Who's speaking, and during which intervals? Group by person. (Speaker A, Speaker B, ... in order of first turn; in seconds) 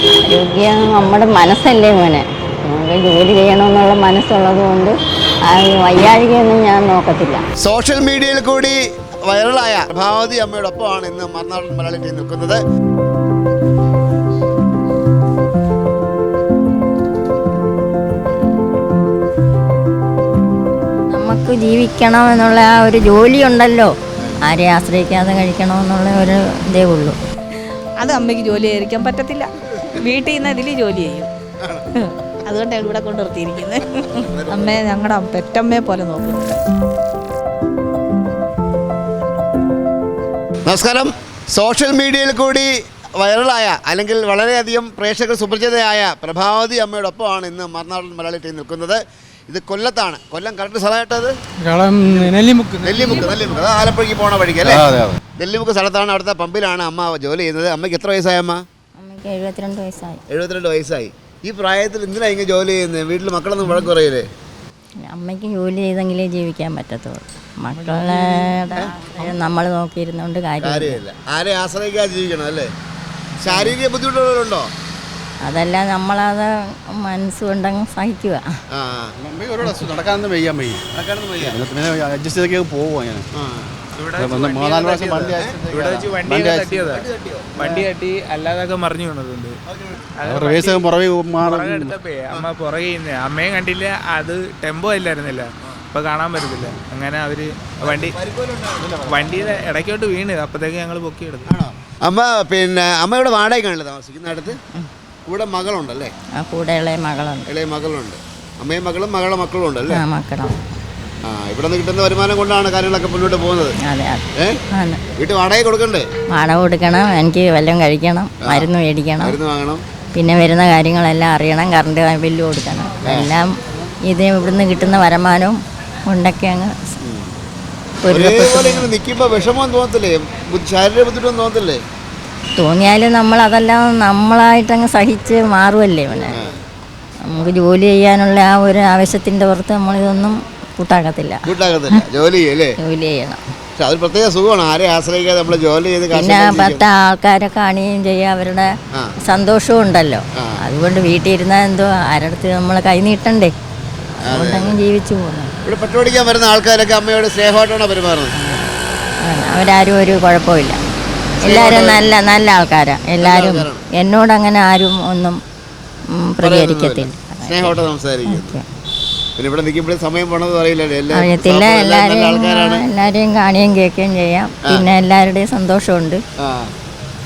Speaker A: 0.2-4.9, 5.5-7.4, 21.1-23.9, 24.4-27.1, 59.0-60.2, 65.0-71.0, 75.4-78.4, 106.4-107.5, 109.9-110.5, 113.8-115.0, 116.3-119.4, 120.1-123.5, 124.0-126.7, 128.0-128.9, 132.6-136.4, 137.3-141.4, 142.8-143.4, 146.1-148.7, 149.2-153.5, 154.2-155.5, 158.3-158.7, 159.2-160.8, 161.4-165.4, 166.1-167.7, 168.3-168.6, 171.1-176.2
Speaker B: 7.6-12.6, 31.6-32.0, 33.9-34.8, 40.6-51.4, 52.1-58.6, 60.3-64.2, 70.6-72.7, 73.4-74.7, 78.7-79.1, 80.9-81.6, 83.3-83.8, 86.7-87.6, 89.7-90.1, 97.8-99.3, 101.5-104.6, 105.3-106.1, 107.5-110.0, 111.2-113.7, 115.2-116.1, 118.4-118.7, 119.2-119.8, 127.0-127.3, 128.1-131.8, 141.4-142.8, 143.8-146.8, 154.2-154.8, 155.6-158.3, 161.4-162.0, 163.2-163.8, 166.4-168.6, 169.4-172.8, 176.4-176.7
Speaker C: 28.0-31.3, 32.0-36.6
Speaker D: 51.6-53.2, 54.6-55.2, 79.2-80.8, 81.4-83.2, 84.2-86.8, 90.2-92.0
Speaker E: 83.9-87.0, 87.6-89.5, 90.2-90.8, 91.4-98.2, 99.0-101.5